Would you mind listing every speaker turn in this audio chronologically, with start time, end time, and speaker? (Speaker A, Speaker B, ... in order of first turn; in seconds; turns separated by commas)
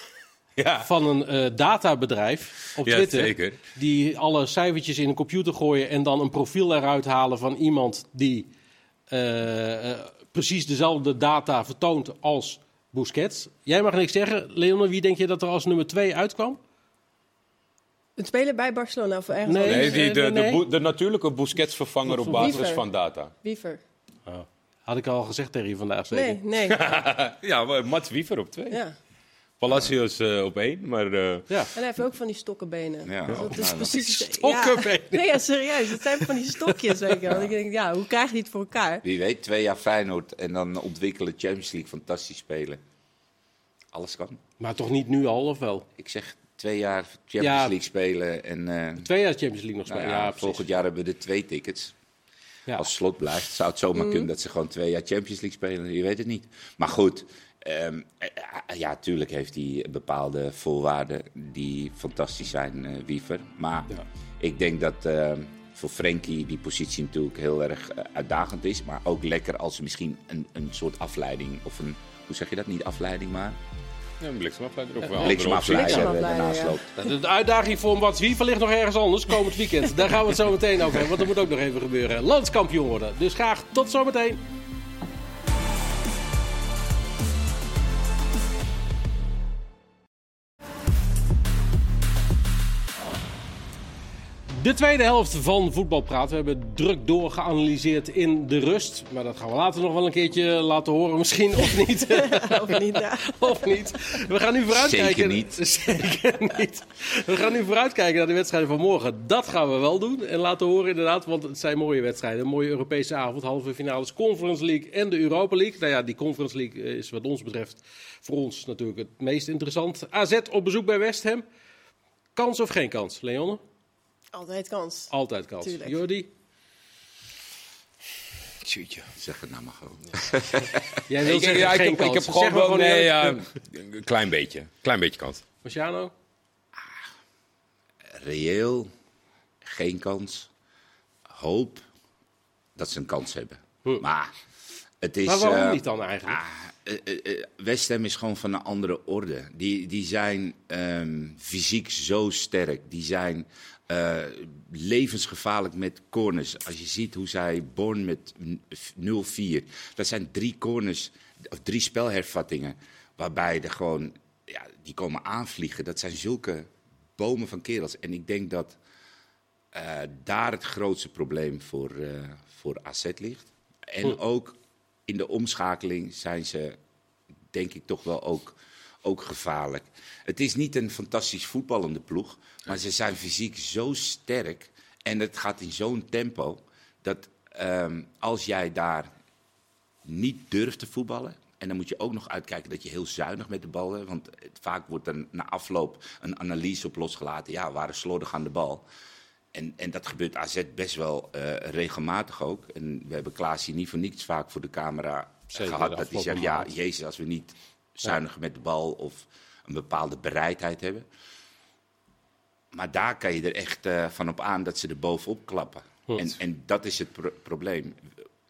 Speaker A: 0.6-0.9, Speaker B: 0.8-8.5, Speaker A: 2.8-3.6, Speaker B: 9.1-16.6, Speaker C: 18.2-20.5, Speaker B: 19.5-20.6, Speaker A: 19.6-23.3, Speaker B: 22.1-22.7, Speaker C: 22.3-22.9, Speaker C: 23.4-23.8, Speaker B: 24.3-26.4, Speaker C: 26.1-26.9, Speaker A: 26.7-28.8, Speaker C: 28.7-29.0, Speaker A: 29.6-31.6, Speaker C: 31.8-39.0, Speaker D: 33.0-34.1, Speaker B: 34.0-37.1, Speaker D: 39.0-42.8, Speaker D: 43.9-44.4, Speaker B: 44.6-45.9, Speaker D: 46.0-49.1, Speaker B: 47.4-47.7, Speaker B: 49.0-50.6, Speaker D: 49.9-52.0, Speaker D: 52.8-73.6, Speaker A: 74.2-76.2, Speaker D: 75.2-76.9, Speaker C: 75.5-76.8, Speaker B: 77.0-84.4, Speaker B: 94.5-121.5, Speaker C: 102.2-103.6, Speaker D: 104.7-105.6, Speaker B: 122.4-123.6, Speaker C: 124.3-126.0, Speaker B: 125.1-126.3, Speaker A: 128.6-129.1, Speaker D: 129.2-131.0, Speaker B: 131.1-133.4, Speaker A: 131.2-135.5, Speaker B: 135.6-136.1, Speaker D: 138.1-138.9, Speaker D: 139.6-140.5, Speaker D: 141.3-141.8, Speaker D: 142.8-144.3, Speaker D: 145.0-168.8, Speaker B: 145.2-146.4, Speaker D: 169.7-174.6, Speaker D: 175.1-176.8, Speaker D: 177.5-189.1, Speaker D: 190.1-198.8, Speaker D: 199.5-211.1, Speaker B: 205.5-206.7, Speaker D: 212.7-218.0